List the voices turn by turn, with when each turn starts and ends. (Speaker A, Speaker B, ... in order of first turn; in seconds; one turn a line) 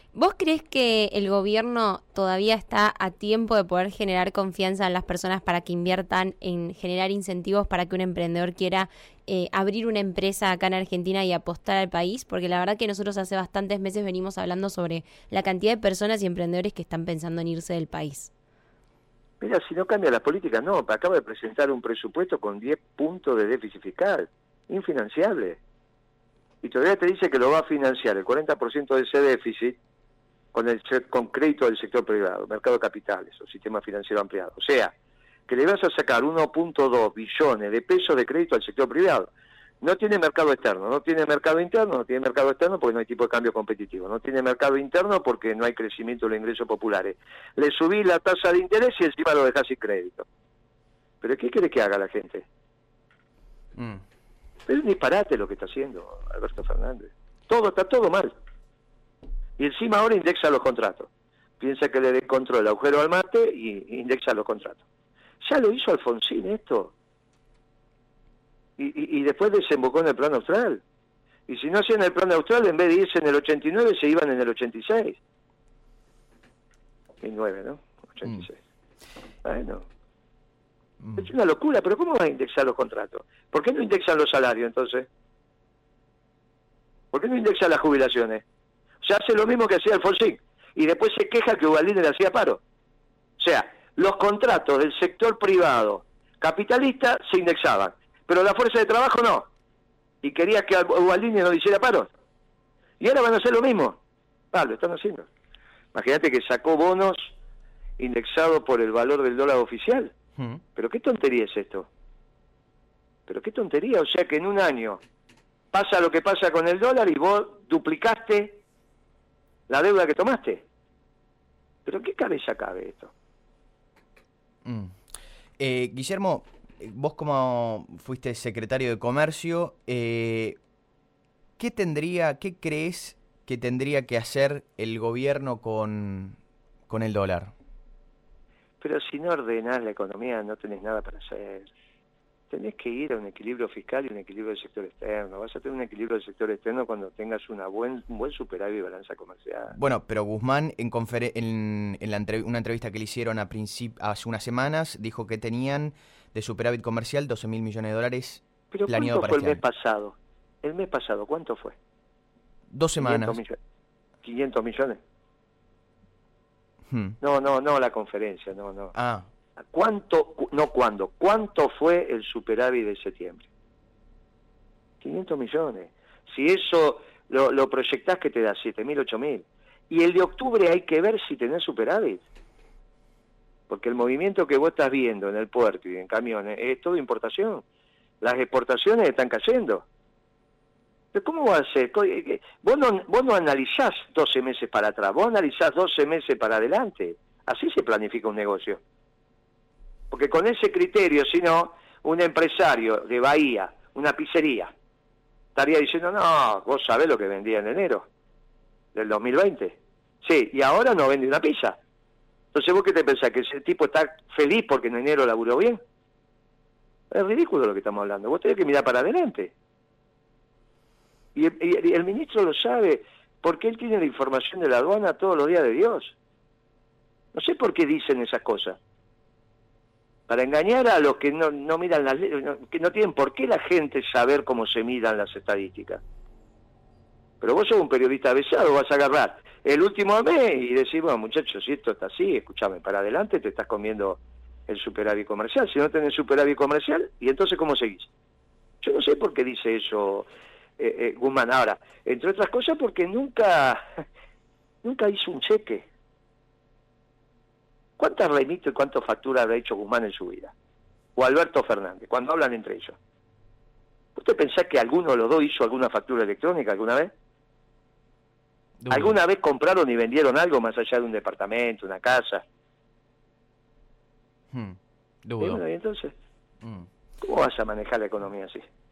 Speaker A: 0.1-18.3
Speaker B: 19.4-25.6
Speaker B: 26.6-29.8
Speaker B: 30.5-34.9
Speaker B: 35.5-39.3
Speaker B: 39.8-50.3
Speaker B: 51.2-52.5
Speaker C: 53.8-54.0
Speaker B: 54.7-58.4
Speaker B: 59.6-61.1
Speaker B: 61.6-64.8
Speaker B: 65.4-66.9
Speaker B: 68.8-70.8
Speaker B: 71.5-75.2
Speaker B: 77.2-78.6
Speaker B: 79.4-79.9
Speaker C: 81.0-81.3
Speaker B: 81.2-85.1
Speaker B: 87.1-88.4
Speaker B: 89.0-92.6
Speaker B: 93.4-99.5
Speaker B: 100.2-102.1
Speaker B: 103.0-104.0
Speaker B: 104.5-105.3
Speaker B: 105.9-107.3
Speaker B: 108.0-110.1
Speaker C: 110.4-110.6
Speaker B: 110.8-111.9
Speaker B: 113.3-115.0
Speaker B: 115.7-118.6
Speaker B: 119.7-120.7
Speaker B: 121.9-123.1
Speaker C: 124.7-125.0
Speaker C: 125.6-130.6
Speaker C: 131.6-136.4
Speaker C: 136.9-137.5
Speaker B: 138.8-141.7
Speaker B: 142.5-149.8
Speaker C: 149.8-159.6
Speaker B: 158.7-161.8
Speaker C: 162.7-163.4
Speaker B: 163.0-163.6
Speaker B: 164.2-165.0
Speaker C: 166.9-167.2
Speaker B: 167.2-168.9
Speaker C: 169.0-169.3
Speaker B: 169.7-173.5
Speaker B: 175.0-182.2
Speaker B: 183.7-187.6
Speaker B: 188.2-189.8
Speaker B: 191.1-198.8
Speaker B: 200.1-204.7
Speaker B: 205.6-208.1
Speaker B: 208.9-211.8
Speaker B: 212.5-215.8
Speaker B: 217.1-219.5
Speaker B: 221.3-226.2
Speaker B: 227.3-228.8
Speaker B: 230.3-236.0
Speaker B: 237.4-248.1
Speaker B: 248.8-254.0
Speaker B: 254.8-255.9
Speaker B: 258.0-260.5
Speaker B: 261.2-263.0
Speaker B: 264.2-267.1
Speaker C: 268.8-269.2
Speaker B: 268.9-272.4
Speaker C: 274.5-275.6
Speaker B: 275.4-276.1
Speaker C: 276.6-276.9
Speaker B: 277.2-278.6